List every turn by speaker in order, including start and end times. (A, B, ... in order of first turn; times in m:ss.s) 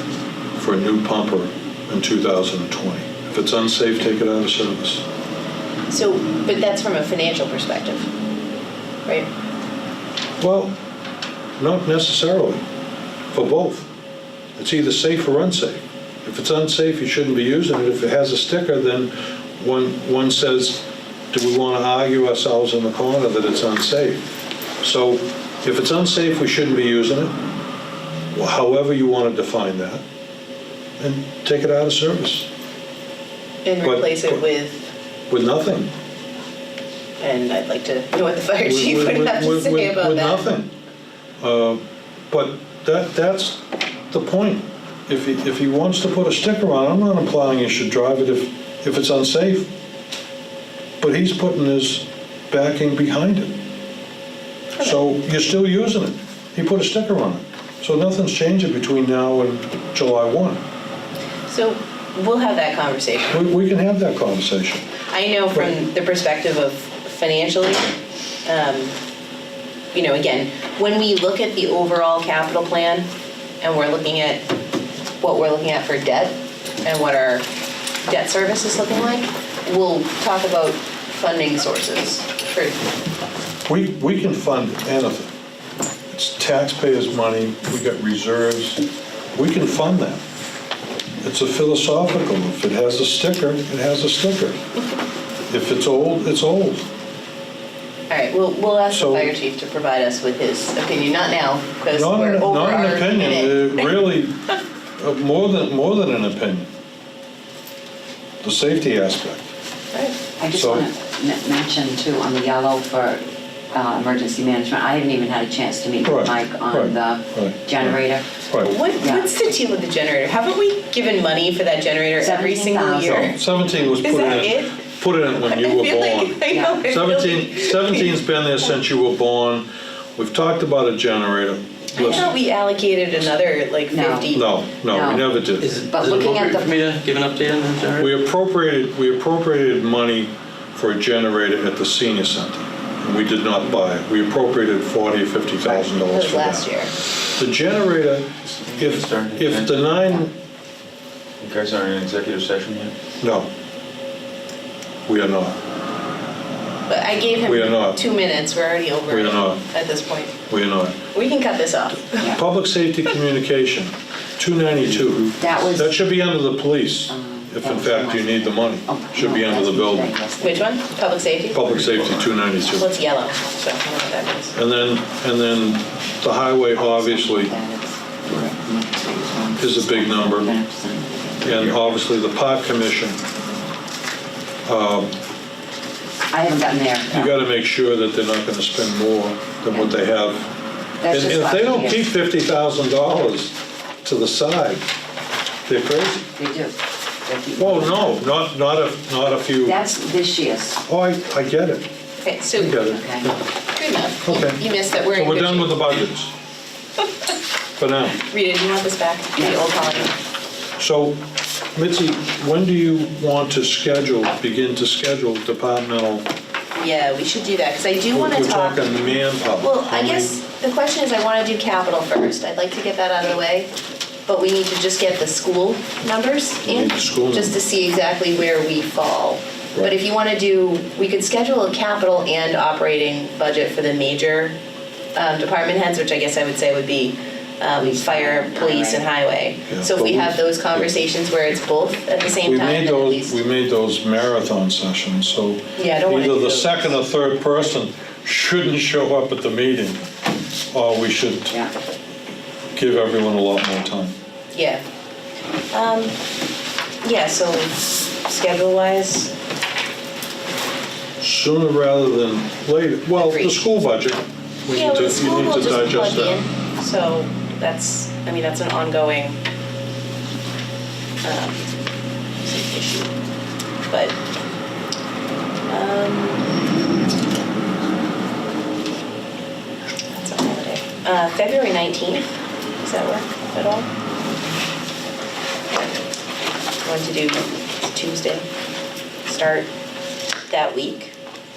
0:00.6-0:05.0 A
0:05.9-0:08.1 B
0:10.4-0:10.7 A
0:11.6-0:12.6 A
0:13.3-0:13.9 A
0:14.6-0:27.3 A
0:28.3-0:30.0 A
0:31.0-0:32.5 A
0:33.6-0:34.9 B
0:33.8-0:34.4 A
0:35.3-0:35.9 A
0:37.2-0:40.5 B
0:38.6-0:40.7 A
0:41.4-0:49.7 A
0:51.0-0:53.6 A
0:54.8-1:00.6 A
1:01.5-1:03.5 B
1:03.3-1:04.8 A
1:05.1-1:07.9 B
1:08.5-1:08.9 B
1:09.9-1:13.1 B
1:13.6-1:14.4 B
1:15.2-1:17.4 B
1:18.0-1:22.8 B
1:23.7-1:25.3 A
1:26.1-1:30.2 A
1:31.2-1:34.6 A
1:35.5-1:36.9 A
1:38.1-1:44.0 B
1:38.9-1:39.3 A
1:41.9-1:44.4 A
1:45.0-1:46.7 A
1:48.4-1:49.5 A
1:50.4-1:53.2 C
1:50.5-1:50.9 A
1:53.7-1:59.3 C
1:56.0-1:58.7 A
1:58.6-2:04.8 B
2:02.2-2:03.4 C
2:03.1-2:12.3 A
2:05.4-2:08.2 B
2:06.5-2:06.9 C
2:11.9-2:14.6 B
2:13.9-2:16.7 C
2:14.3-2:15.7 A
2:15.6-2:18.1 D
2:18.0-2:26.7 A
2:25.7-2:26.9 B
2:27.4-2:30.3 A
2:28.5-2:30.0 E
2:31.4-2:33.0 E
2:33.2-2:33.5 A
2:35.1-2:35.6 A
2:36.9-2:40.3 B
2:37.4-2:38.0 A
2:39.1-2:39.6 A
2:40.5-2:41.0 A
2:41.1-2:42.4 B
2:42.2-2:50.1 A
2:45.4-2:46.0 C
2:47.1-2:50.8 C
2:50.4-2:51.8 B
2:51.5-2:52.9 A
2:51.8-2:52.3 E
2:52.7-2:54.6 B
2:54.5-2:57.5 A
2:56.7-3:02.0 C
2:59.6-3:00.5 A
3:01.4-3:03.2 A
3:04.6-3:05.1 A
3:06.3-3:07.4 C
3:07.1-3:10.5 A
3:11.0-3:12.1 C
3:11.1-3:14.8 A
3:15.7-3:16.2 A
3:16.4-3:18.2 C
3:17.6-3:19.8 A
3:19.6-3:20.8 C
3:20.9-3:21.8 A
3:22.2-3:22.8 B
3:22.6-3:23.4 A
3:22.8-3:23.3 C
3:23.7-3:25.9 B
3:24.2-3:26.3 A
3:27.8-3:28.2 A
3:28.2-3:30.2 B
3:29.4-3:30.1 C
3:30.8-3:31.2 A
3:31.8-3:36.3 A
3:36.8-3:43.7 B
3:38.1-3:40.3 A
3:44.3-3:54.5 B
3:46.6-3:47.6 A
3:55.2-4:03.4 B
3:57.8-3:59.1 C
3:59.7-4:00.9 A
4:02.4-4:10.0 A
4:05.8-4:07.0 B
4:10.7-4:11.6 A
4:12.8-4:14.2 A
4:14.5-4:14.8 B
4:15.7-4:16.1 B
4:17.0-4:19.3 B
4:21.2-4:26.4 A
4:23.2-4:23.6 B
4:24.7-4:29.4 B
4:31.2-4:31.7 B
4:32.4-4:33.1 B
4:33.9-4:34.2 B
4:35.7-4:36.5 B
4:40.1-4:43.9 B
4:46.8-4:48.4 B
4:49.3-4:49.7 B
4:50.5-4:51.1 B